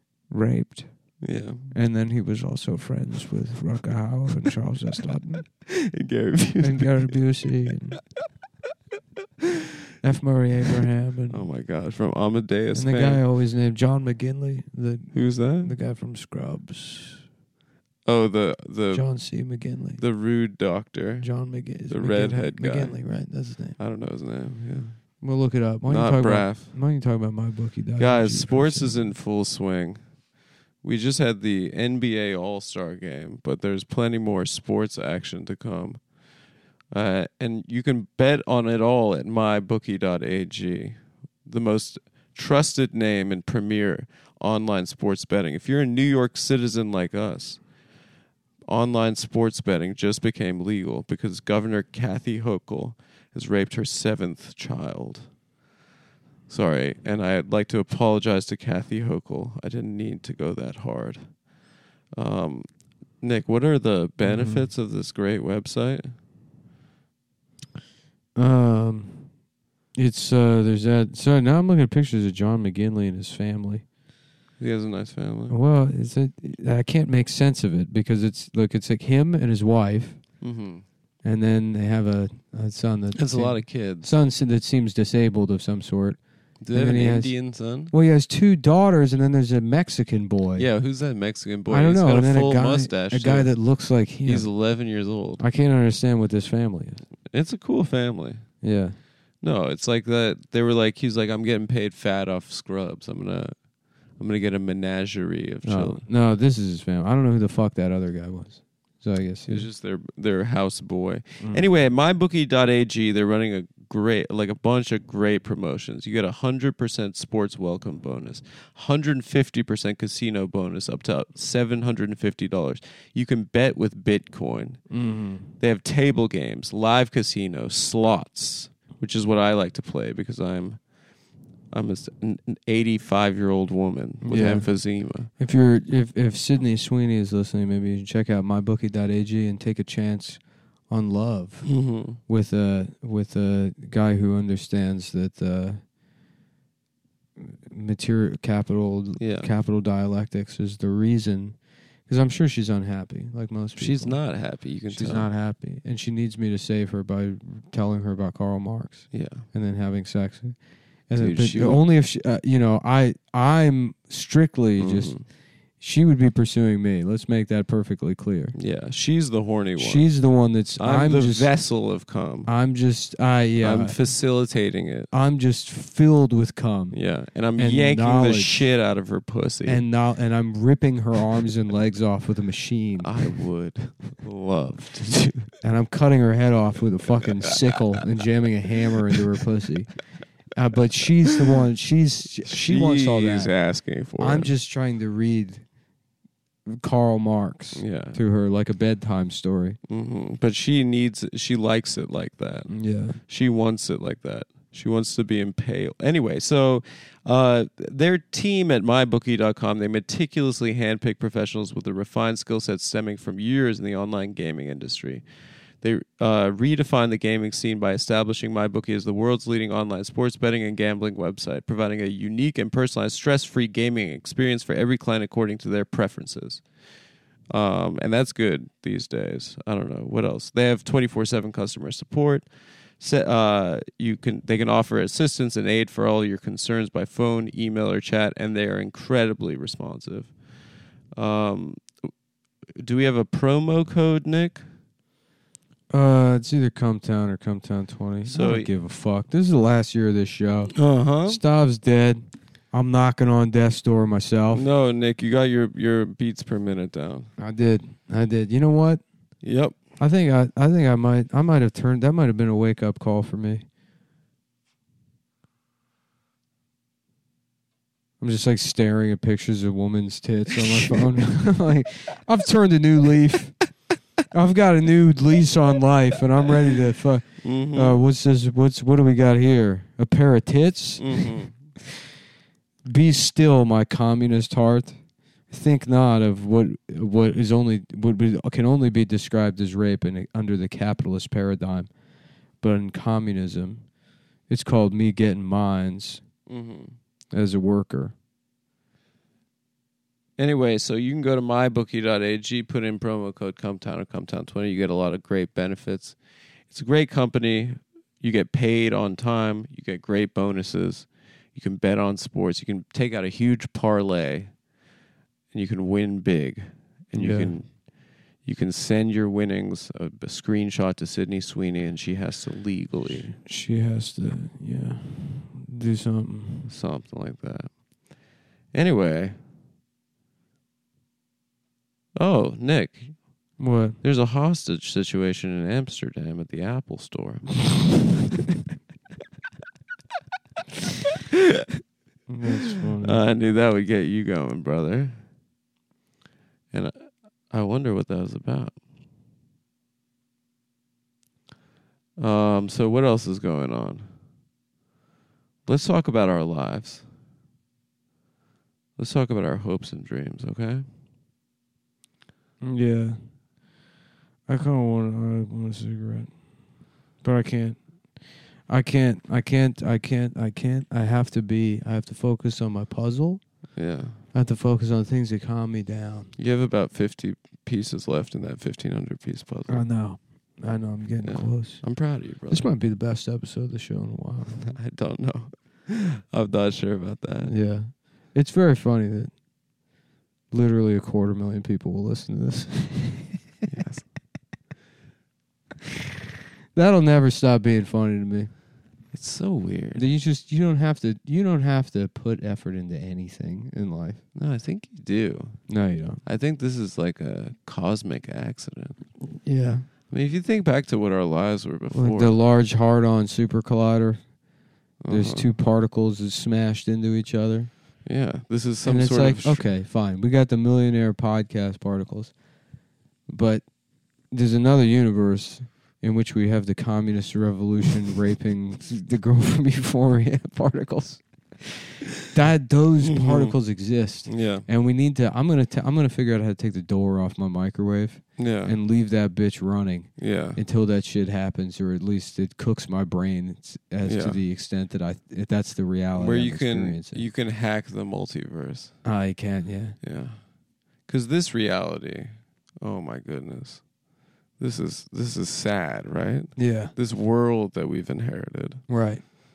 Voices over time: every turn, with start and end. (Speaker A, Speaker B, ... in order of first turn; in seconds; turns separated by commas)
Speaker A: 0.3-0.9, Speaker B: 1.2-1.7, Speaker A: 1.7-5.5, Speaker B: 5.7-7.2, Speaker A: 6.6-8.0, Speaker A: 10.0-11.4, Speaker B: 11.3-13.2, Speaker A: 12.7-17.2, Speaker B: 15.1-15.7, Speaker B: 18.1-19.1, Speaker A: 18.9-20.0, Speaker B: 20.0-21.4, Speaker A: 21.2-23.8, Speaker B: 21.9-23.0, Speaker B: 23.8-25.0, Speaker A: 25.2-29.1, Speaker B: 25.9-26.7, Speaker B: 28.0-30.0, Speaker B: 30.8-36.0, Speaker B: 36.9-47.6, Speaker B: 48.7-55.3, Speaker B: 56.5-61.4, Speaker B: 62.1-62.7, Speaker B: 63.2-66.1, Speaker A: 64.2-64.7, Speaker A: 68.4-69.3, Speaker A: 69.9-73.8, Speaker B: 74.6-75.6, Speaker A: 75.5-80.2, Speaker B: 80.4-80.8, Speaker A: 81.2-86.2, Speaker B: 83.2-84.1, Speaker B: 86.6-87.9, Speaker A: 86.7-87.3, Speaker A: 87.9-90.7, Speaker B: 90.6-93.5, Speaker A: 91.7-94.5, Speaker B: 94.2-95.4, Speaker A: 95.4-97.0, Speaker B: 97.3-98.5, Speaker A: 98.6-99.0, Speaker B: 99.4-103.5, Speaker B: 104.2-106.0, Speaker A: 105.6-109.7, Speaker B: 109.5-124.9, Speaker A: 124.9-125.5, Speaker B: 125.6-130.8, Speaker B: 131.7-135.3, Speaker A: 134.2-134.7, Speaker A: 135.4-145.8, Speaker B: 141.7-142.2, Speaker A: 147.4-154.2, Speaker B: 149.2-149.5, Speaker B: 153.8-155.3, Speaker A: 154.9-165.3, Speaker B: 159.1-159.4, Speaker B: 161.2-161.8, Speaker B: 164.8-165.2, Speaker A: 165.8-168.6, Speaker B: 168.6-170.1, Speaker A: 169.8-171.5, Speaker B: 170.8-172.5, Speaker A: 172.5-174.0, Speaker B: 173.6-175.1, Speaker A: 175.1-177.0, Speaker B: 176.9-179.8, Speaker A: 177.6-178.6, Speaker A: 179.7-183.1, Speaker B: 183.0-185.5, Speaker A: 185.6-189.9, Speaker A: 190.5-193.5, Speaker B: 192.4-194.5, Speaker A: 194.2-195.7, Speaker A: 196.7-199.8, Speaker B: 197.8-198.2, Speaker B: 199.9-215.2, Speaker A: 202.7-203.2, Speaker B: 215.8-226.6, Speaker B: 227.5-232.5, Speaker B: 233.0-240.3, Speaker B: 241.1-241.8, Speaker B: 242.8-244.6, Speaker A: 245.9-250.7, Speaker B: 248.2-248.7, Speaker B: 250.7-251.4, Speaker A: 251.2-254.7, Speaker B: 254.5-257.3, Speaker A: 257.4-259.0, Speaker B: 259.4-259.8, Speaker A: 260.0-263.6, Speaker A: 268.2-273.6, Speaker A: 274.3-281.3, Speaker B: 277.4-278.0, Speaker B: 281.0-281.5, Speaker A: 282.9-285.0, Speaker A: 285.5-291.9, Speaker A: 292.6-293.9, Speaker A: 294.5-296.2, Speaker B: 296.5-296.9, Speaker A: 297.3-298.1, Speaker B: 300.4-306.2, Speaker B: 306.7-314.6, Speaker B: 315.5-317.9, Speaker A: 317.1-317.6, Speaker B: 318.4-323.4, Speaker A: 323.4-326.7, Speaker B: 326.7-327.7, Speaker B: 328.7-329.4, Speaker B: 332.2-333.2, Speaker A: 333.6-334.0, Speaker B: 334.0-337.9, Speaker A: 342.3-343.2, Speaker B: 343.0-345.2, Speaker B: 346.7-348.8, Speaker B: 352.2-354.1, Speaker B: 355.7-357.1, Speaker B: 359.0-360.9, Speaker A: 362.6-363.3, Speaker A: 364.5-366.6, Speaker A: 367.1-373.7, Speaker B: 373.8-374.2, Speaker A: 374.3-376.3, Speaker B: 376.4-379.9, Speaker A: 379.7-381.8, Speaker B: 381.2-382.7, Speaker A: 382.5-384.8, Speaker B: 384.6-387.5, Speaker A: 387.5-389.4, Speaker A: 390.5-393.4, Speaker B: 393.7-394.1, Speaker A: 396.7-398.5, Speaker B: 399.1-400.0, Speaker A: 399.9-404.2, Speaker B: 404.4-405.6, Speaker A: 405.7-406.2, Speaker B: 406.2-409.0, Speaker A: 409.4-409.9, Speaker B: 410.1-412.3, Speaker A: 411.9-414.2, Speaker B: 415.0-415.5, Speaker A: 415.1-417.7, Speaker B: 418.1-419.7, Speaker A: 418.9-422.4, Speaker A: 423.3-423.6, Speaker A: 424.3-447.2, Speaker B: 433.0-433.6, Speaker B: 434.3-434.7, Speaker B: 438.4-438.7, Speaker B: 440.2-440.6, Speaker B: 444.1-444.4, Speaker B: 446.1-449.0, Speaker A: 449.0-450.0, Speaker B: 450.0-450.4, Speaker B: 451.1-453.9, Speaker B: 454.6-458.8, Speaker A: 456.6-456.9, Speaker A: 458.9-459.2